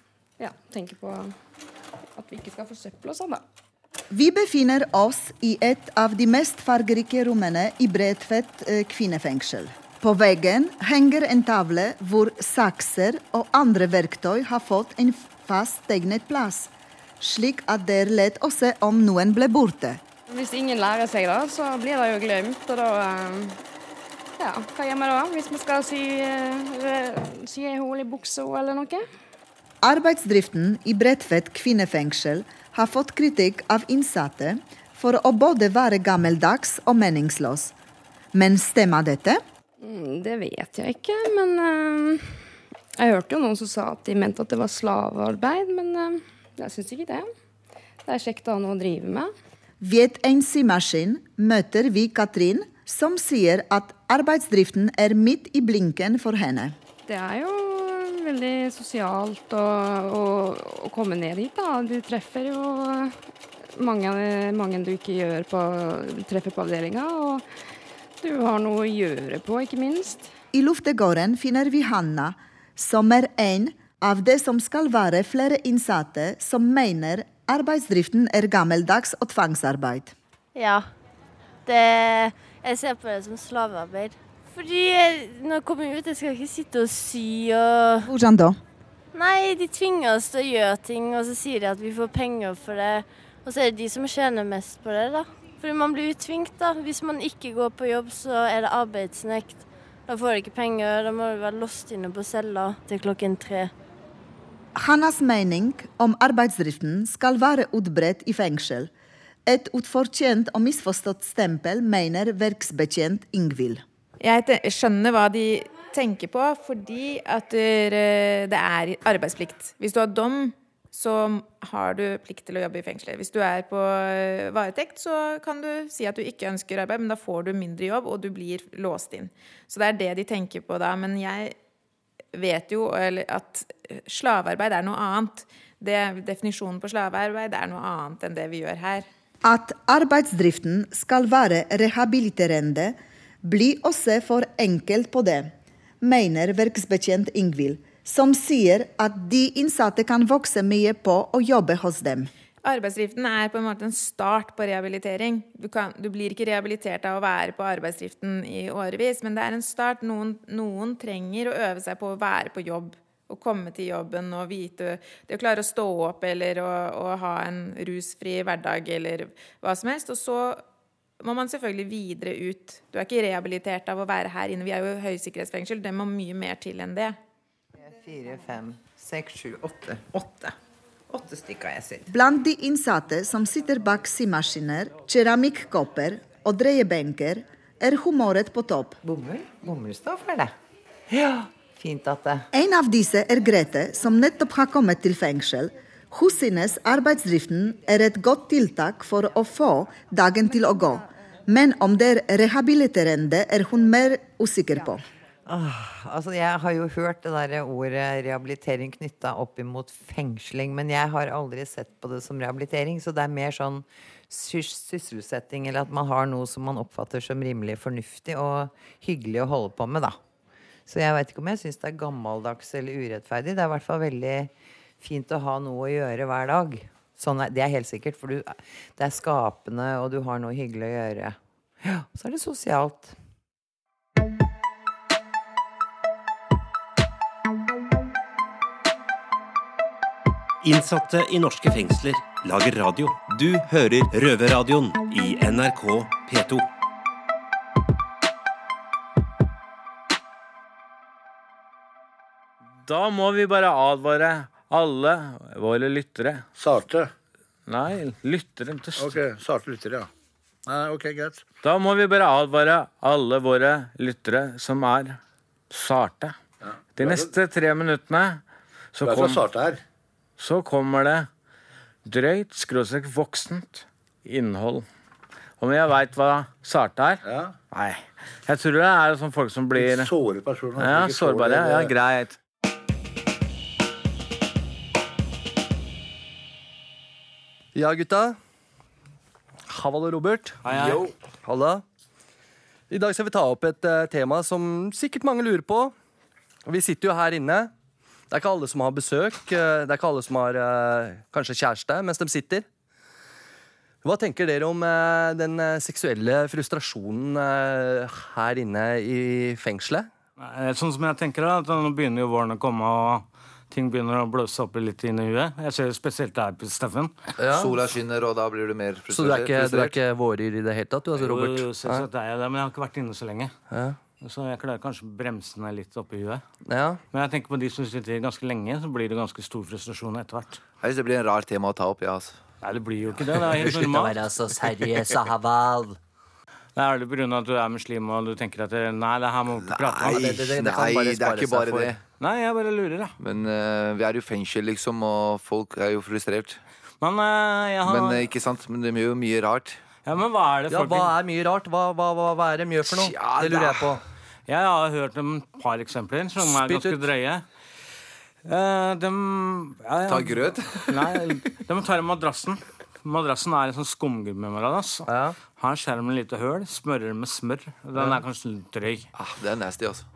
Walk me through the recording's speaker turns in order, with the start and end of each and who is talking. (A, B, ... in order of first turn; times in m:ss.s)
0:00.4-0:01.3 A
0:02.2-0:03.4 A
0:04.1-0:20.0 B
0:20.3-0:23.6 A
0:24.4-0:29.0 A
0:29.8-0:37.7 B
0:38.3-0:39.4 B
0:39.8-0:42.3 A
0:43.0-0:47.3 A
0:48.0-0:49.3 A
0:49.8-0:56.7 B
0:57.1-1:03.2 A
1:03.7-1:07.4 A
1:08.2-1:10.3 A
1:10.5-1:20.1 B
1:20.5-1:20.8 C
1:21.6-1:28.1 C
1:28.0-1:28.6 B
1:29.1-1:43.7 C
1:44.8-1:48.9 B
1:49.5-1:53.8 B
1:54.2-2:11.5 D
2:12.3-2:19.0 D
2:19.4-2:32.3 B
2:32.6-2:50.6 D
2:51.2-2:57.2 D
2:57.8-3:00.5 E
3:01.1-3:02.1 E
3:02.1-3:09.0 B
3:09.0-3:10.5 E
3:11.1-3:12.5 E
3:12.5-3:25.0 B
3:25.5-3:40.2 E
3:40.9-3:53.2 E
4:00.6-4:06.7 F
4:12.8-4:16.4 G
4:16.6-4:17.1 H
4:17.7-4:19.2 G
4:19.0-4:20.1 H
4:20.6-4:21.4 H
4:21.6-4:25.2 G
4:25.7-4:26.3 G
4:27.0-4:28.4 G
4:27.0-4:27.3 H
4:28.9-4:29.4 G
4:29.0-4:29.8 H
4:30.4-4:31.3 G
4:32.0-4:34.8 G
4:35.6-4:40.1 G
4:37.2-4:37.5 H
4:39.7-4:41.9 H
4:40.8-4:42.4 G
4:47.7-4:48.4 I
4:49.7-4:51.8 I
4:50.6-4:51.1 G
4:52.9-4:55.9 I
4:56.6-4:57.7 I
4:58.3-5:02.6 I
5:04.0-5:10.1 I
5:10.4-5:17.2 G
5:17.4-5:17.7 I
5:17.5-5:20.0 J
5:19.1-5:22.0 I
5:21.2-5:23.5 G
5:23.7-5:24.0 I
5:24.2-5:26.4 G
5:26.6-5:27.0 I
5:27.1-5:30.6 G
5:30.8-5:32.4 J
5:32.6-5:34.2 G
5:33.4-5:36.0 I
5:36.8-5:40.2 G
5:39.6-5:42.0 J
5:40.0-5:41.9 I
5:42.2-5:43.1 G
5:43.2-5:46.6 J
5:47.0-5:48.2 G
5:47.8-5:49.8 J
5:50.0-5:51.1 G
5:50.7-5:54.0 I
5:52.8-5:54.0 J
5:54.5-5:57.4 G
5:56.4-5:57.0 I
5:58.4-6:09.1 G
6:00.1-6:01.3 J
6:05.1-6:05.4 I
6:09.1-6:10.0 J